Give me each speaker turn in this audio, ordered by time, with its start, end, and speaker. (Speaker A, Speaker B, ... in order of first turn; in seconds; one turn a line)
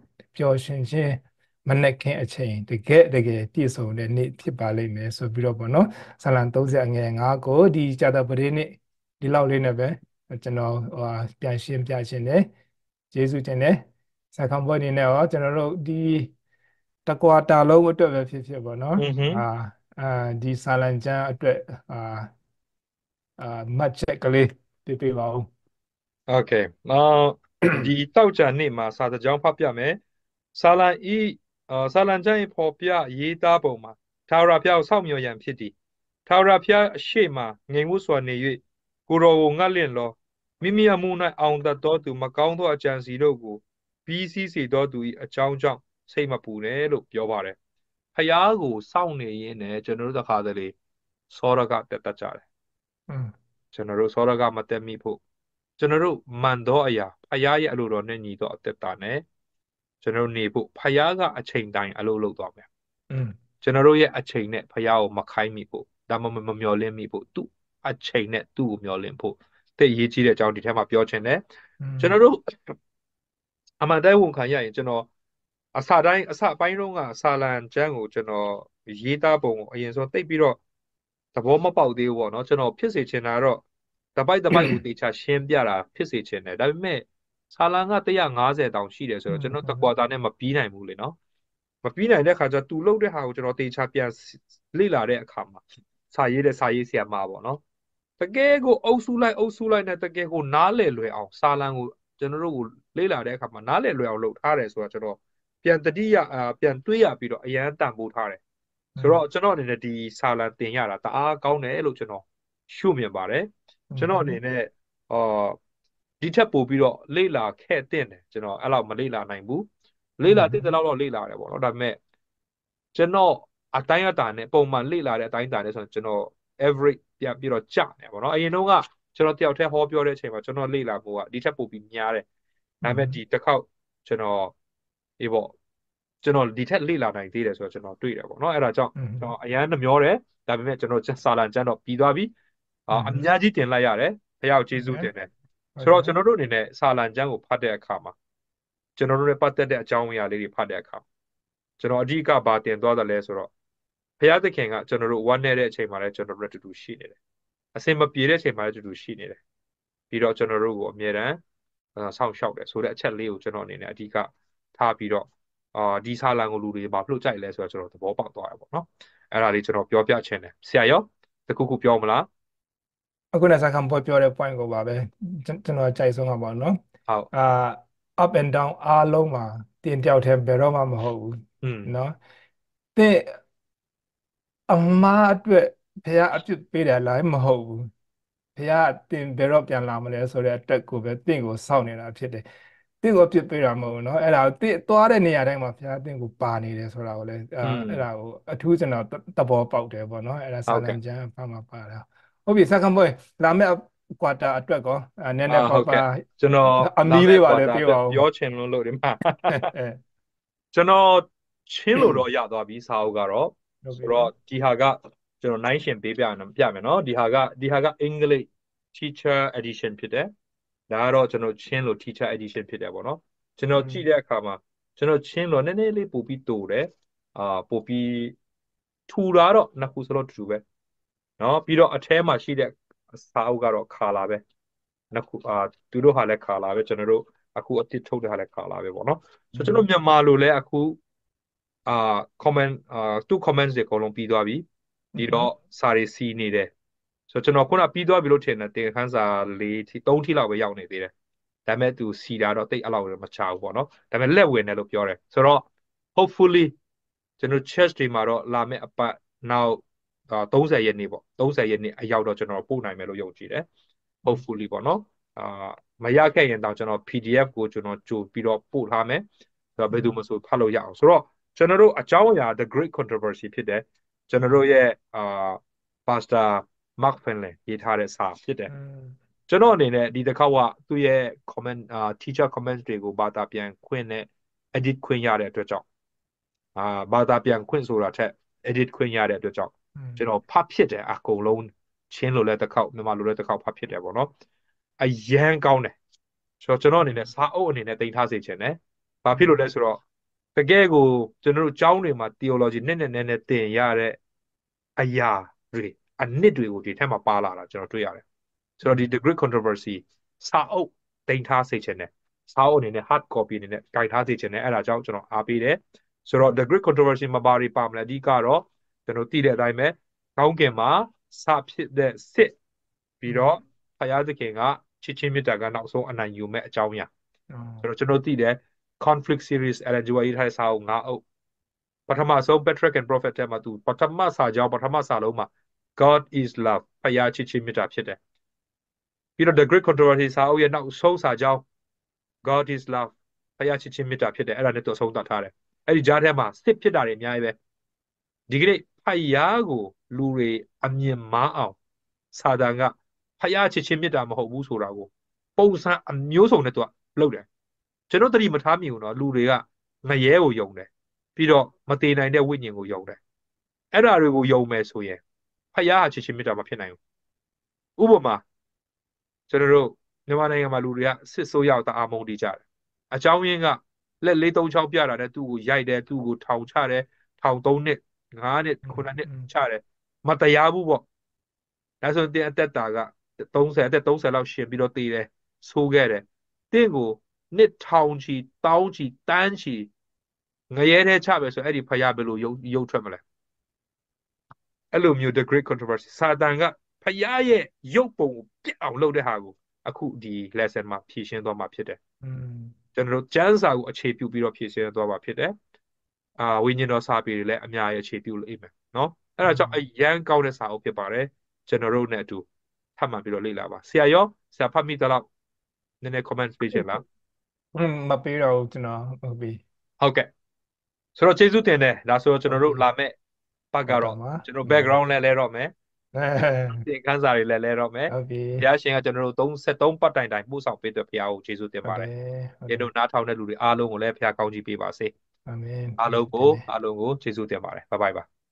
Speaker A: 0.3-12.5
Speaker A: 13.1-16.3
Speaker A: 17.1-22.3
Speaker B: 19.0-19.4
Speaker A: 23.4-25.5
Speaker B: 26.3-30.0
Speaker B: 30.5-35.7
Speaker B: 36.2-47.5
Speaker B: 48.1-50.7
Speaker B: 51.3-52.4
Speaker B: 53.7-55.2
Speaker B: 55.8-59.2
Speaker B: 60.0-62.6
Speaker A: 63.1-63.3
Speaker B: 63.6-71.4
Speaker A: 71.8-72.2
Speaker B: 72.0-72.7
Speaker B: 73.8-75.1
Speaker B: 75.7-80.6
Speaker B: 81.3-83.6
Speaker B: 84.2-91.2
Speaker A: 89.3-89.9
Speaker B: 91.8-97.6
Speaker B: 98.2-108.4
Speaker A: 109.0-109.2
Speaker B: 109.0-115.6
Speaker A: 113.9-114.4
Speaker B: 116.2-119.7
Speaker B: 120.2-122.0
Speaker A: 120.3-120.6
Speaker B: 122.9-132.2
Speaker A: 132.8-133.2
Speaker B: 132.8-134.5
Speaker B: 135.2-135.5
Speaker B: 136.2-142.3
Speaker A: 138.9-139.3
Speaker B: 142.9-148.1
Speaker A: 142.9-143.3
Speaker A: 144.7-145.1
Speaker A: 145.8-146.1
Speaker B: 149.0-151.0
Speaker B: 151.8-153.5
Speaker B: 154.2-157.2
Speaker B: 157.7-159.4
Speaker B: 160.1-161.4
Speaker B: 161.9-172.3
Speaker A: 173.3-176.8
Speaker A: 177.3-182.2
Speaker B: 181.6-181.9
Speaker A: 182.9-183.4
Speaker A: 184.7-187.9
Speaker A: 188.6-192.4
Speaker A: 193.0-206.2
Speaker B: 197.6-198.0
Speaker B: 200.7-201.0
Speaker B: 205.5-209.7
Speaker A: 206.8-208.2
Speaker A: 209.5-210.0
Speaker B: 210.7-220.3
Speaker A: 213.8-214.3
Speaker B: 220.9-228.3
Speaker A: 223.7-224.0
Speaker B: 229.1-230.6
Speaker B: 231.4-234.4
Speaker B: 235.1-241.0
Speaker A: 239.5-239.8
Speaker B: 241.8-244.6
Speaker A: 245.2-245.5
Speaker B: 245.2-246.7
Speaker B: 247.3-251.1
Speaker B: 251.7-256.7
Speaker B: 257.4-263.7
Speaker B: 264.2-269.2
Speaker B: 269.8-278.7
Speaker A: 269.9-270.2
Speaker A: 274.4-274.6
Speaker A: 278.7-279.2
Speaker B: 279.5-285.8
Speaker B: 286.7-294.3
Speaker A: 289.9-290.2
Speaker B: 295.0-295.9
Speaker B: 296.6-300.0
Speaker A: 297.0-297.3
Speaker B: 300.5-304.2
Speaker B: 305.0-308.2
Speaker B: 308.8-322.5
Speaker A: 308.8-309.1
Speaker B: 323.2-327.1
Speaker A: 323.3-323.5
Speaker A: 327.5-327.9
Speaker B: 327.8-331.2
Speaker B: 332.1-338.2
Speaker B: 339.4-341.6
Speaker B: 342.4-347.6
Speaker B: 348.5-351.8
Speaker B: 352.3-357.4
Speaker B: 358.1-363.2
Speaker B: 363.9-365.2
Speaker B: 365.7-367.0
Speaker B: 368.0-368.4
Speaker B: 369.5-381.0
Speaker A: 378.9-379.5
Speaker B: 382.0-389.9
Speaker B: 390.7-393.2
Speaker B: 394.9-402.0
Speaker A: 402.2-402.7
Speaker B: 402.9-405.5
Speaker B: 406.4-412.4
Speaker A: 409.4-409.8
Speaker B: 413.0-415.3
Speaker B: 416.0-417.0
Speaker A: 417.7-419.6
Speaker B: 420.0-420.3
Speaker B: 421.1-423.1
Speaker A: 422.5-422.8
Speaker B: 423.7-425.7
Speaker A: 423.9-424.9
Speaker A: 426.1-426.9
Speaker B: 426.7-432.1
Speaker A: 428.1-428.7
Speaker A: 431.8-432.9
Speaker B: 432.7-435.1
Speaker A: 435.4-436.7
Speaker B: 436.0-438.2